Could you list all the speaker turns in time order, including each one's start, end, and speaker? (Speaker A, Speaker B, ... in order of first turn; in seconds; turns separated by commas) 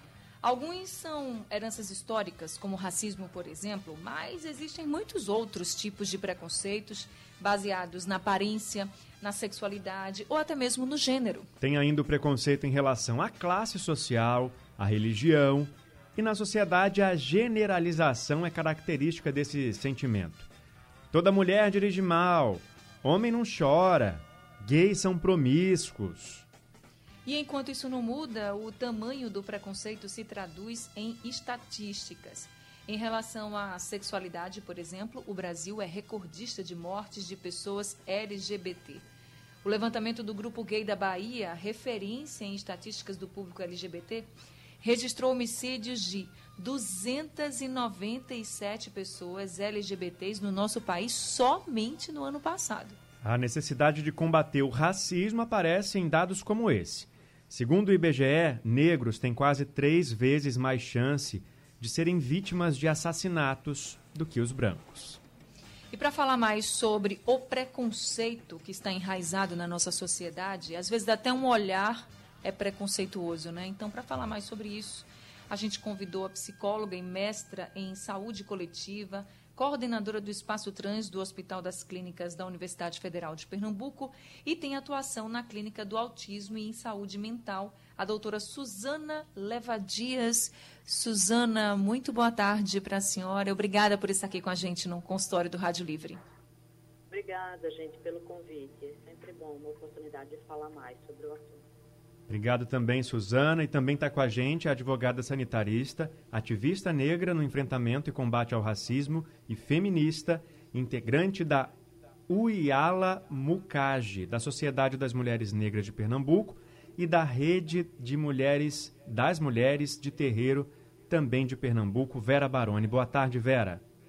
Speaker A: 0.4-11.5, Speaker B: 11.6-20.5, Speaker B: 21.1-26.4, Speaker A: 27.2-39.0, Speaker A: 39.6-44.3, Speaker A: 44.8-53.0, Speaker B: 53.2-65.2, Speaker A: 65.9-96.2, Speaker C: 97.1-101.6, Speaker B: 102.3-111.7, Speaker B: 112.3-123.8